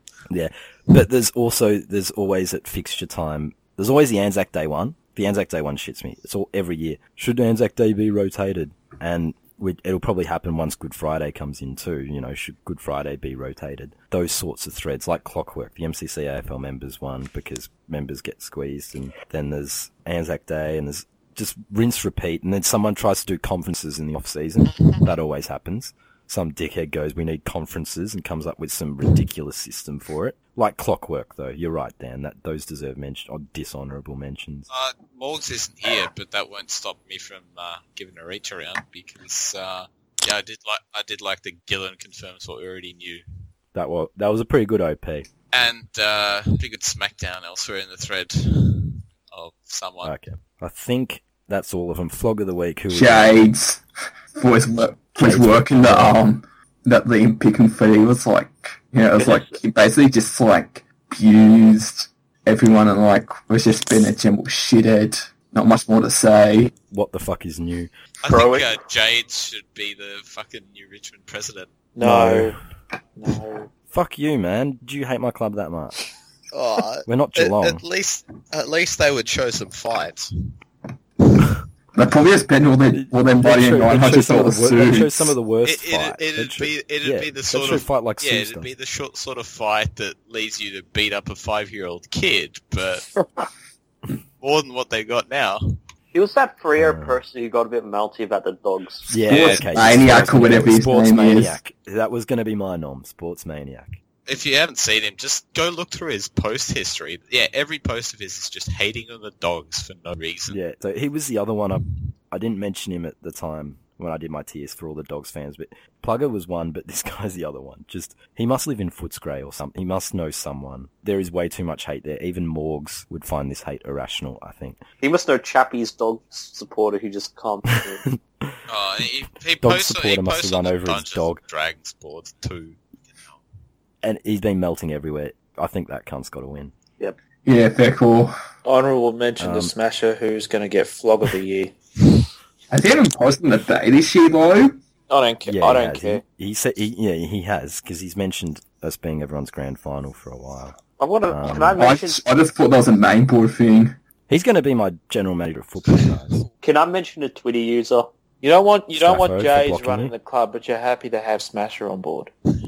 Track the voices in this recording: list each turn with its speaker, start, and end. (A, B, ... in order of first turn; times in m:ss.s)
0:00.3-0:34.7 A
0:24.8-0:25.0 B
0:34.7-0:43.2 B
0:43.7-0:45.3 A
0:45.5-0:50.1 B
0:50.0-0:53.4 A
0:52.9-0:53.8 C
0:54.3-1:06.7 C
0:55.2-0:56.2 A
0:59.2-0:59.6 D
1:06.9-1:07.9 A
1:08.2-1:11.7 B
1:08.3-1:08.7 D
1:12.0-1:12.6 E
1:12.0-1:12.6 A
1:13.2-1:13.7 E
1:13.9-1:16.0 A
1:16.5-1:20.5 B
1:17.1-1:17.8 A
1:21.3-1:21.6 B
1:22.0-1:25.3 C
1:22.9-1:28.7 A
1:25.6-1:33.1 B
1:34.4-1:35.6 B
1:36.1-1:39.1 D
1:36.8-1:37.2 A
1:39.1-1:44.0 A
1:39.3-1:41.6 C
1:44.3-1:50.6 B
1:50.5-2:04.8 A
2:05.0-2:08.0 D
2:07.7-2:08.6 A
2:08.7-2:13.4 B
2:09.6-2:11.4 A
2:14.0-2:16.7 A
2:17.4-2:18.4 C
2:18.6-2:21.7 E
2:19.4-2:19.7 A
2:22.7-2:24.8 C
2:25.1-2:26.2 E
2:25.4-2:30.8 A
2:31.0-2:32.2 D
2:31.3-2:31.8 A
2:31.8-2:34.0 C
2:34.3-2:36.4 A
2:36.6-2:38.1 D
2:38.4-2:42.3 E
2:39.0-2:40.1 A